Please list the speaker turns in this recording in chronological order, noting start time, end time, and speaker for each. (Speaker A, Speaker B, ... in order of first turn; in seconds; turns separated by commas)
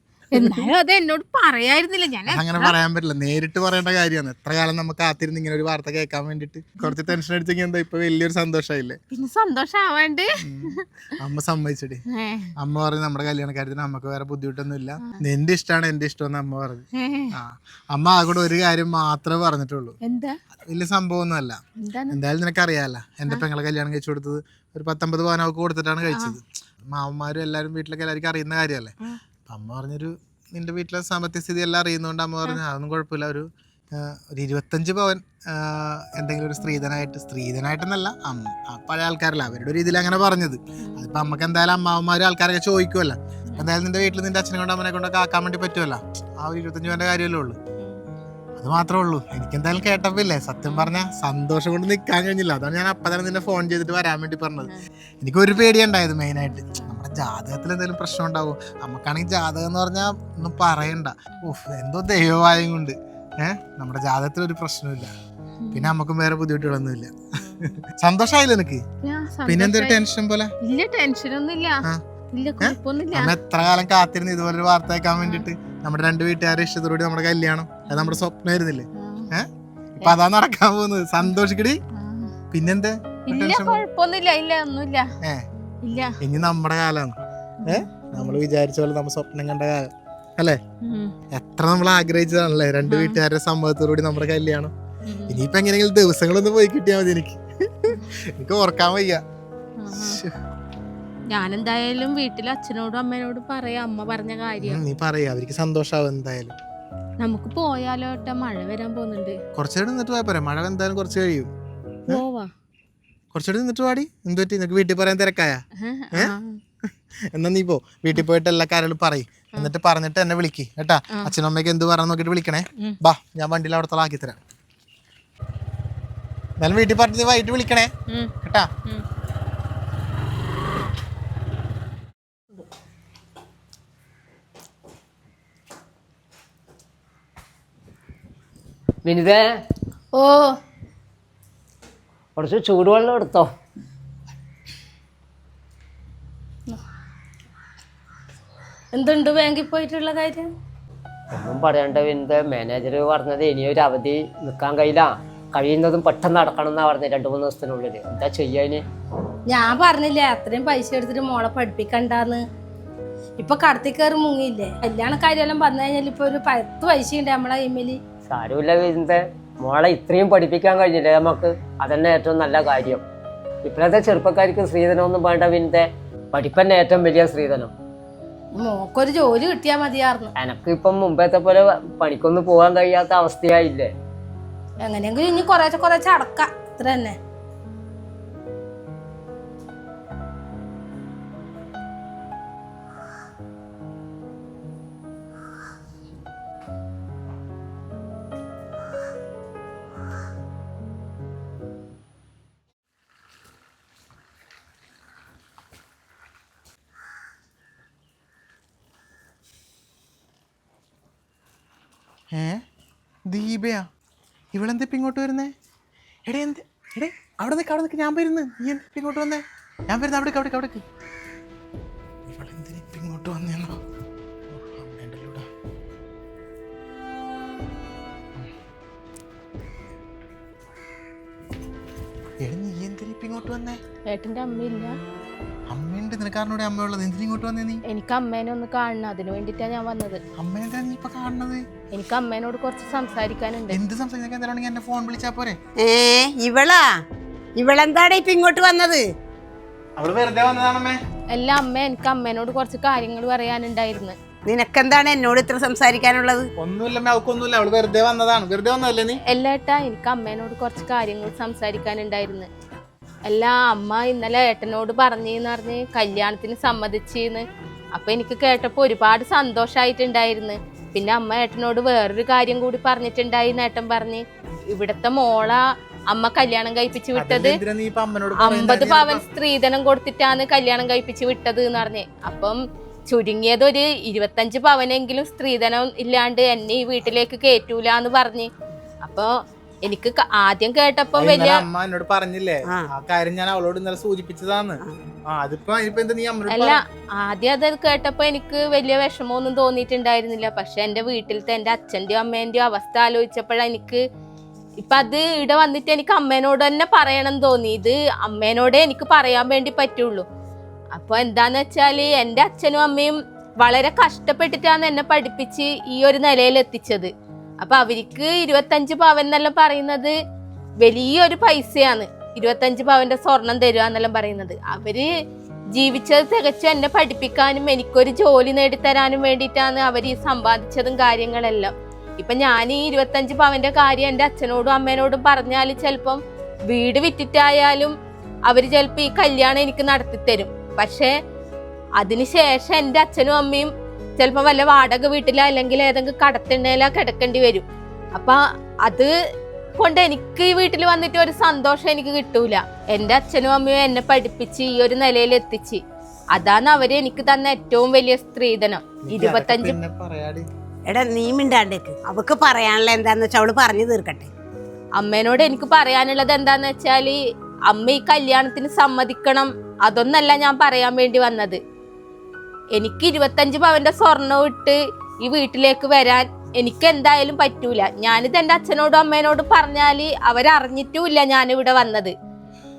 Speaker A: 0.3-2.8, Speaker B: 0.3-0.7, Speaker B: 2.3-9.0, Speaker A: 9.1-10.8, Speaker B: 10.4-12.0, Speaker A: 12.1-12.5, Speaker B: 12.6-20.0, Speaker A: 16.9-17.4, Speaker A: 20.0-20.4, Speaker B: 20.7-21.6, Speaker A: 21.8-22.2, Speaker B: 22.1-28.9, Speaker A: 26.1-26.4, Speaker B: 29.5-47.6, Speaker A: 40.8-41.1, Speaker B: 48.6-65.1, Speaker A: 65.6-65.9, Speaker B: 65.7-68.8, Speaker A: 67.4-67.8, Speaker A: 69.0-70.0, Speaker B: 69.5-70.5, Speaker A: 70.6-73.3, Speaker B: 72.6-81.8, Speaker A: 77.9-78.2, Speaker A: 79.0-79.3, Speaker A: 81.9-82.3, Speaker B: 82.5-83.8, Speaker A: 83.3-85.1, Speaker A: 85.8-86.2, Speaker B: 86.2-90.6, Speaker A: 87.6-88.4, Speaker A: 90.8-91.1, Speaker B: 91.3-94.7, Speaker A: 92.9-93.2, Speaker A: 95.1-95.4, Speaker B: 95.3-99.2, Speaker A: 99.8-100.2, Speaker B: 99.9-100.4, Speaker A: 101.3-104.8, Speaker B: 104.6-106.5, Speaker A: 107.2-109.4, Speaker B: 109.5-111.5, Speaker A: 112.1-112.5, Speaker B: 113.3-115.6, Speaker A: 115.8-116.6, Speaker B: 117.3-124.4, Speaker B: 126.6-127.9, Speaker B: 128.4-128.7, Speaker C: 139.0-139.4, Speaker D: 140.2-140.4, Speaker C: 142.4-143.5, Speaker D: 148.9-150.5, Speaker C: 151.3-158.8, Speaker D: 159.5-162.4, Speaker D: 163.4-168.0, Speaker C: 168.3-173.0, Speaker C: 173.6-177.7, Speaker D: 178.6-180.3, Speaker A: 179.8-180.2, Speaker C: 180.4-183.9, Speaker D: 184.9-187.1, Speaker A: 184.9-186.1, Speaker B: 212.3-212.6, Speaker B: 213.3-213.9, Speaker B: 214.5-215.5, Speaker B: 216.3-220.8, Speaker B: 222.3-223.8, Speaker B: 224.5-225.5, Speaker B: 232.4-233.8, Speaker A: 234.1-234.9, Speaker B: 235.7-237.8, Speaker A: 237.9-240.2, Speaker B: 240.4-241.7, Speaker A: 241.9-243.8, Speaker B: 243.7-245.6, Speaker E: 245.8-246.9, Speaker E: 247.6-249.1, Speaker B: 250.0-251.0, Speaker A: 251.3-254.2, Speaker E: 254.5-256.5, Speaker B: 256.6-259.2, Speaker A: 259.3-262.5, Speaker A: 263.2-277.6, Speaker B: 277.1-279.2, Speaker A: 278.4-288.5, Speaker A: 289.0-291.6, Speaker B: 291.2-296.8, Speaker A: 296.5-304.0, Speaker A: 304.8-310.2, Speaker A: 310.9-320.1, Speaker A: 320.8-325.1, Speaker A: 325.7-337.9, Speaker A: 338.5-341.1, Speaker A: 342.0-349.1, Speaker A: 349.8-355.8, Speaker A: 356.3-359.8, Speaker B: 359.0-360.5, Speaker E: 360.9-364.3, Speaker A: 365.0-371.6, Speaker A: 372.7-382.1